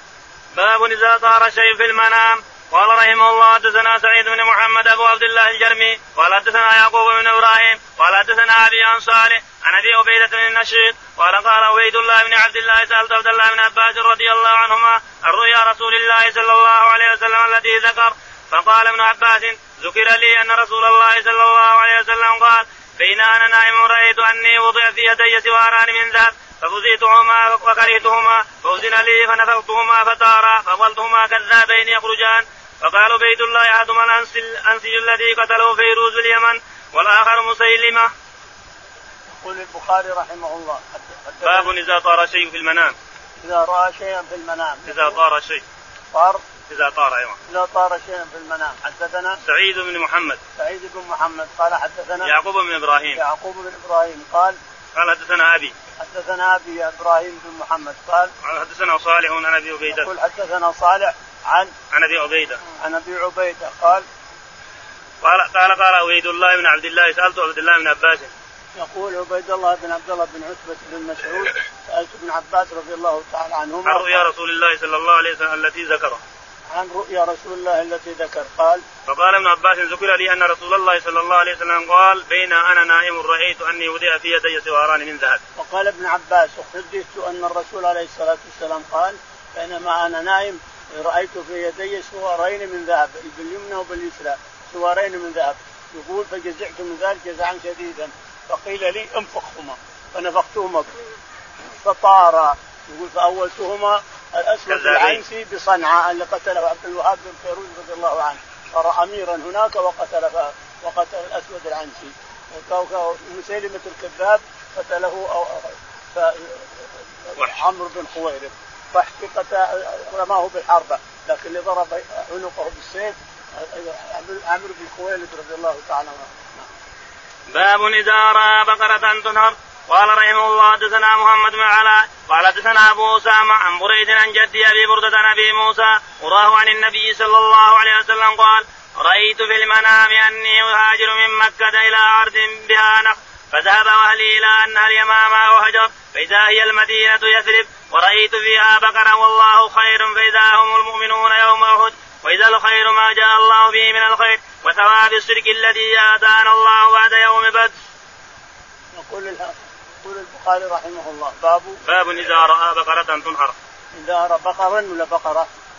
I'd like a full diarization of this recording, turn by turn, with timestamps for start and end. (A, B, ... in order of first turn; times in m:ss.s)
0:00.5-0:38.1 A
0:39.3-0:41.7 B
0:41.4-0:43.0 A
0:43.4-0:45.2 B
0:44.9-0:45.6 A
0:46.1-0:46.4 B
0:46.7-0:47.4 A
0:47.5-0:49.4 B
0:49.4-0:50.4 A
0:50.6-0:52.3 B
0:52.2-0:53.2 A
0:53.1-0:54.6 B
0:54.9-0:55.7 A
0:56.0-0:58.3 B
0:58.4-1:00.1 A
0:59.9-1:01.7 B
1:01.9-1:02.6 A
1:02.6-1:04.0 B
1:05.2-1:08.3 A
1:08.8-1:14.2 B
1:13.8-1:16.2 A
1:16.7-1:18.8 B
1:19.0-1:25.4 A
1:25.6-1:40.9 B
1:41.7-2:06.7 B
1:44.7-1:45.2 A
2:07.5-2:37.7 A
2:38.9-2:41.8 B
2:41.8-2:43.6 A
2:43.9-2:45.5 B